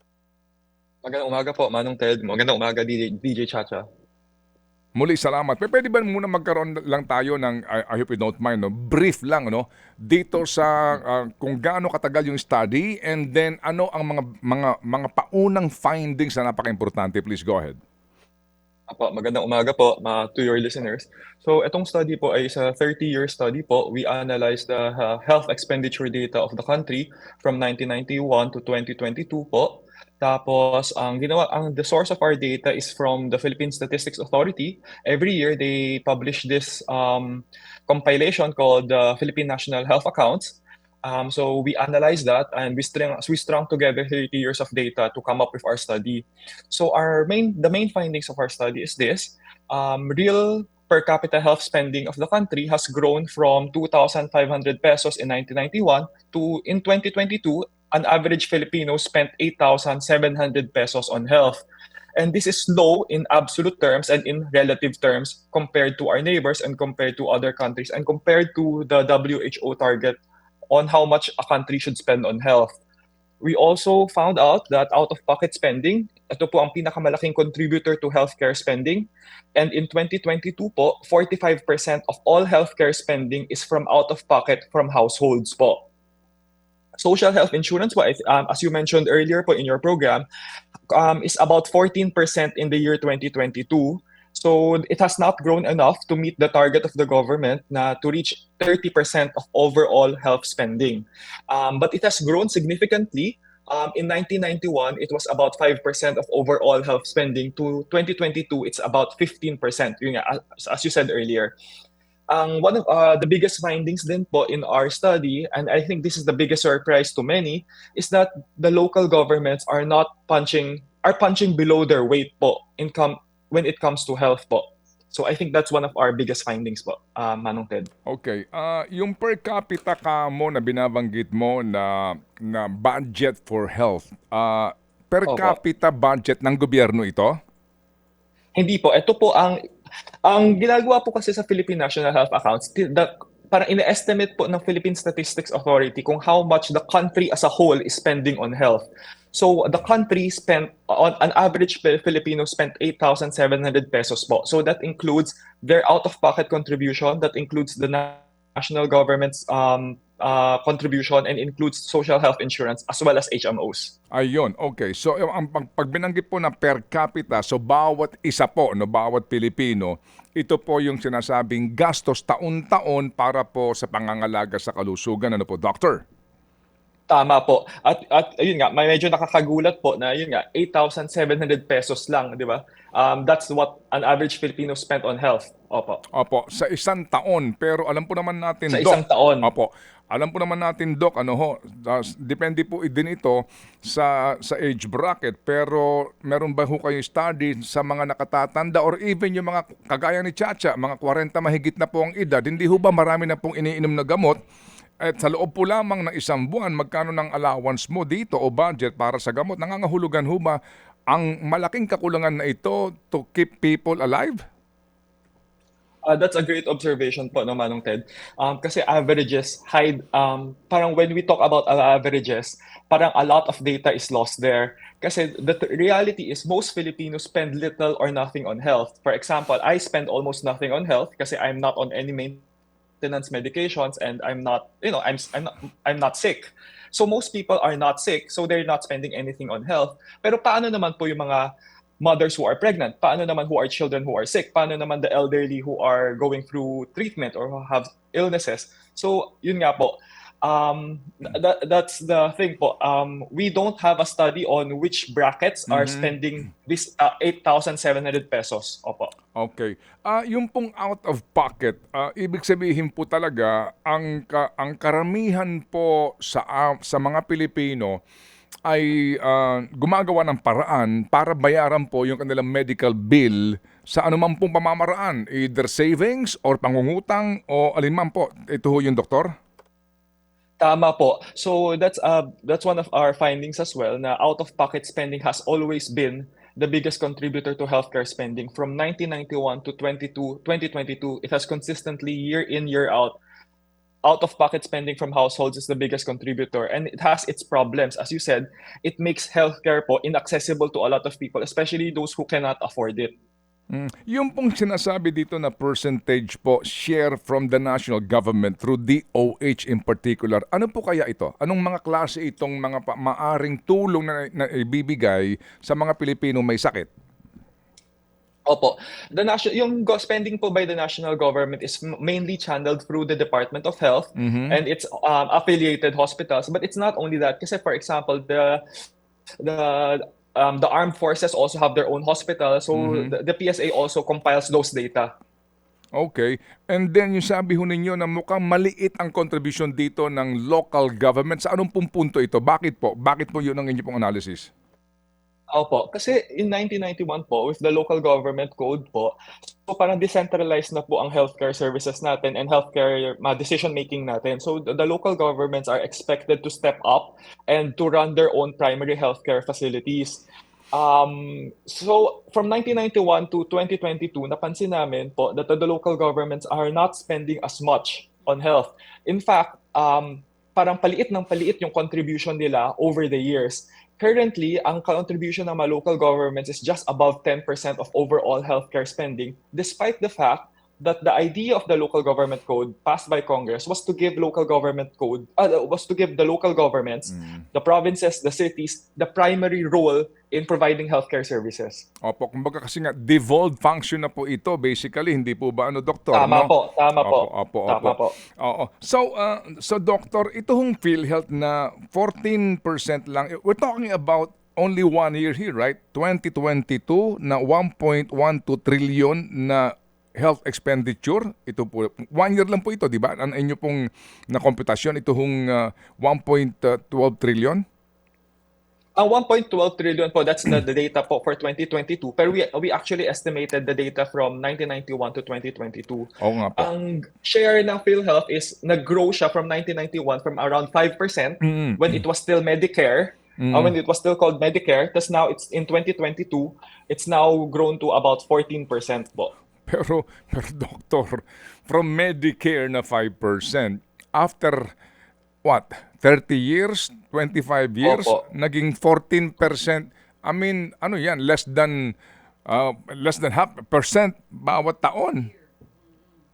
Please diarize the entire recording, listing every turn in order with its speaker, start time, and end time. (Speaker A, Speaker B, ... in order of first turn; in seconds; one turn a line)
Speaker A: 1.0-3.9
Speaker B: 5.0-17.8
Speaker A: 18.9-61.6
Speaker A: 62.2-72.8
Speaker A: 73.4-85.8
Speaker A: 87.0-90.2
Speaker A: 90.9-111.5
Speaker A: 112.3-127.9
Speaker B: 128.1-137.3
Speaker A: 135.2-135.6
Speaker A: 138.5-139.6
Speaker A: 140.2-163.9
Speaker B: 164.1-176.0
Speaker A: 177.1-186.0
Speaker B: 186.1-204.4
Speaker A: 188.7-189.5
Speaker B: 205.0-210.6
Speaker B: 211.1-214.4
Speaker A: 216.0-232.4
Speaker A: 233.0-259.1
Speaker B: 255.7-256.1
Speaker B: 259.4-268.0
Speaker B: 268.7-279.4
Speaker A: 280.6-293.2
Speaker A: 294.0-303.1
Speaker B: 303.7-316.9
Speaker A: 318.5-328.6
Speaker B: 324.2-324.6
Speaker A: 329.4-335.1
Speaker B: 332.8-333.1
Speaker B: 336.0-344.5
Speaker A: 345.5-391.9
Speaker B: 387.2-387.4
Speaker B: 392.0-417.6
Speaker A: 396.1-398.2
Speaker A: 419.0-439.3
Speaker B: 426.2-426.7
Speaker B: 431.4-432.0
Speaker B: 433.4-433.7
Speaker B: 439.7-444.7
Speaker B: 445.4-451.9
Speaker A: 447.8-448.2
Speaker B: 452.5-455.3